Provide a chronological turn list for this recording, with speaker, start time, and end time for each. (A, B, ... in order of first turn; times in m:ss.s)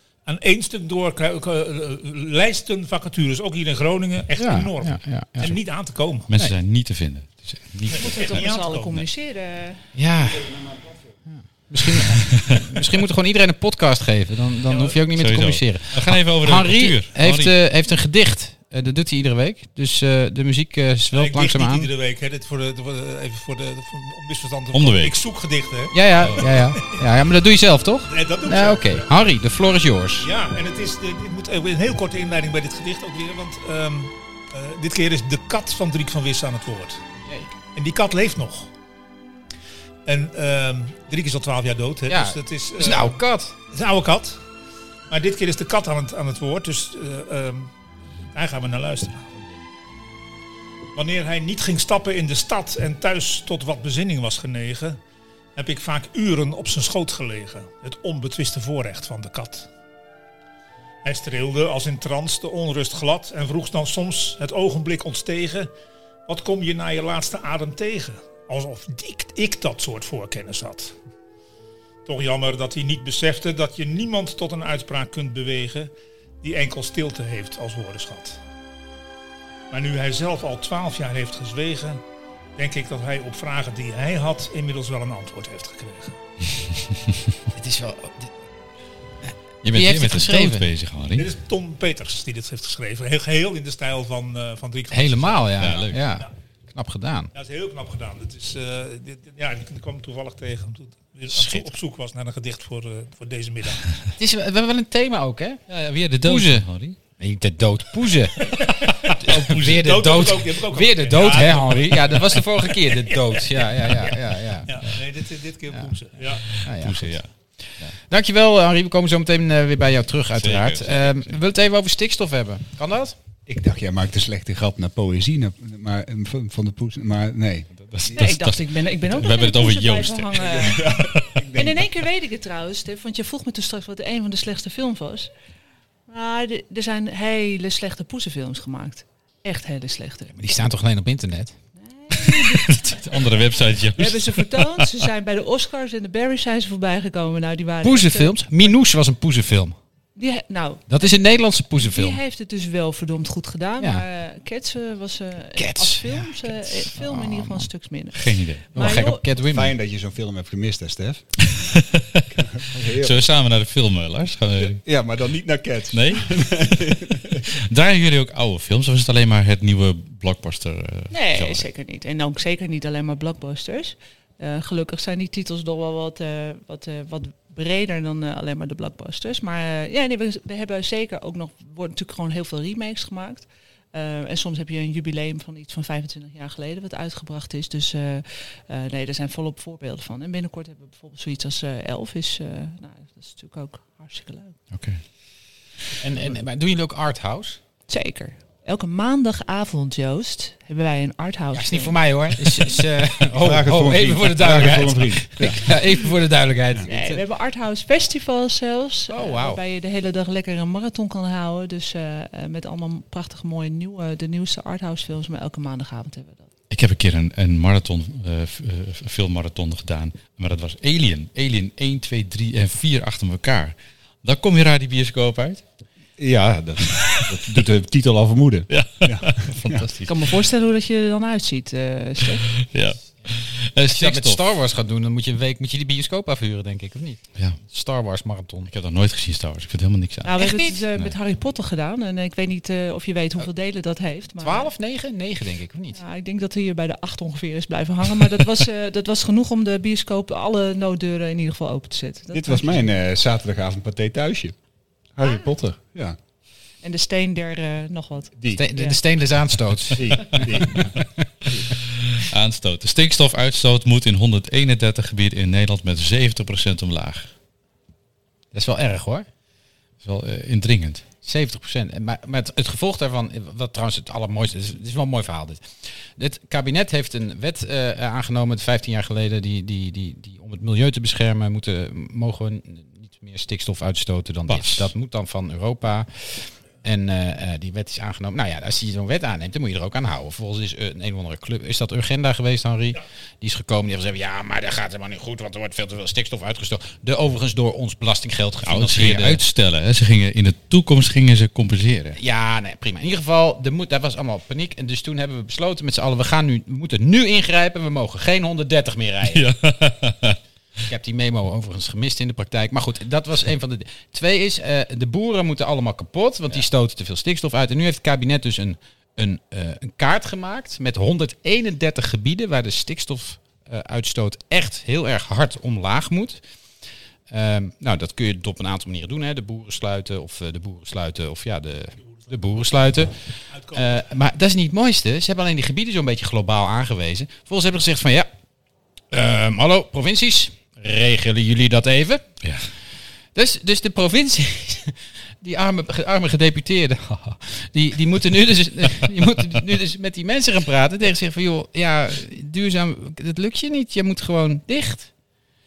0:00.2-0:06.3 A
0:04.4-0:05.6 B
0:06.3-0:08.5 C
0:07.9-0:09.0 A
0:07.9-0:09.8 D
0:09.9-0:10.5 B
0:10.2-0:11.0 E
0:11.3-0:21.9 B
0:12.1-0:12.6 C
0:14.7-0:15.0 A
0:15.1-0:17.5 C
0:21.1-0:27.0 A
0:24.7-0:25.2 C
0:25.9-0:30.3 B
0:28.1-0:29.1 A
0:30.2-0:37.0 A
0:37.2-0:37.5 B
0:37.7-0:38.7 A
0:40.0-0:43.2 A
0:42.1-0:43.5 B
0:43.7-0:44.4 A
0:45.1-0:47.7 A
0:48.3-0:49.3 A
0:50.9-0:55.0 A
0:55.5-0:59.7 A
1:01.0-1:05.7 A
1:06.3-1:11.0 A
1:12.0-1:18.4 A
1:19.7-1:22.0 A
1:22.6-1:26.2 A
1:27.5-1:28.3 B
1:29.6-1:31.3 C
1:29.7-1:30.6 B
1:31.2-1:36.3 A
1:34.9-1:37.3 B
1:35.6-1:36.0 C
1:37.3-1:43.9 A
1:44.2-1:45.6 B
1:45.7-1:47.0 C
1:46.2-1:46.6 B
1:47.2-1:48.4 B
1:48.4-1:49.2 A
1:49.1-1:50.2 C
1:49.2-1:55.0 B
1:49.7-1:56.5 A
1:56.6-1:57.3 C
1:56.6-1:57.2 B
1:58.1-2:03.1 B
2:00.4-2:01.3 C
2:03.4-2:08.2 E
2:07.8-2:11.4 C
2:08.1-2:10.9 D
2:10.3-2:11.8 E
2:11.5-2:15.3 D
2:16.1-2:20.3 D
2:20.3-2:21.5 B
2:21.8-2:23.3 D
2:22.2-2:25.0 C
2:23.9-2:28.7 D
2:27.8-2:29.8 B
2:30.2-2:31.1 D
2:30.9-2:32.2 B
2:31.8-2:39.2 D
2:35.6-2:37.7 B
2:38.1-2:38.6 C
2:38.7-2:39.7 B
2:39.4-2:41.8 E
2:41.5-2:42.2 C
2:42.3-2:43.2 E
2:43.0-2:44.8 C
2:44.6-2:47.5 E
2:45.9-2:51.7 C
2:51.1-3:14.6 D
3:14.7-3:15.0 C
3:16.0-3:17.6 B
3:17.9-3:22.8 D
3:21.5-3:27.2 B
3:23.4-3:25.7 E
3:26.9-3:36.5 D
3:29.1-3:29.6 B
3:36.7-3:45.6 C
3:46.2-3:49.8 E
3:48.7-3:50.1 C
3:50.0-3:52.5 D
3:52.6-3:54.4 C
3:53.8-3:58.7 B
3:58.7-4:01.1 C
4:00.2-4:04.7 D
4:04.4-4:06.0 B
4:05.9-4:12.8 D
4:12.3-4:14.6 E
4:15.2-4:16.2 E
4:15.2-4:15.5 D
4:16.8-4:19.0 D
4:18.5-4:21.0 B
4:19.9-4:21.6 E
4:22.1-4:27.3 C
4:28.5-4:29.3 B
4:30.0-4:31.0 C
4:31.2-4:35.6 B
4:36.2-4:59.4 B
4:44.5-4:44.9 C
4:58.6-5:02.2 C
5:02.2-5:09.4 B
5:09.3-5:10.4 C
5:10.9-5:26.4 B
5:27.3-5:33.1 B
5:33.5-5:34.0 A
5:33.7-5:38.3 B
5:39.1-5:42.2 B
5:43.3-5:55.1 B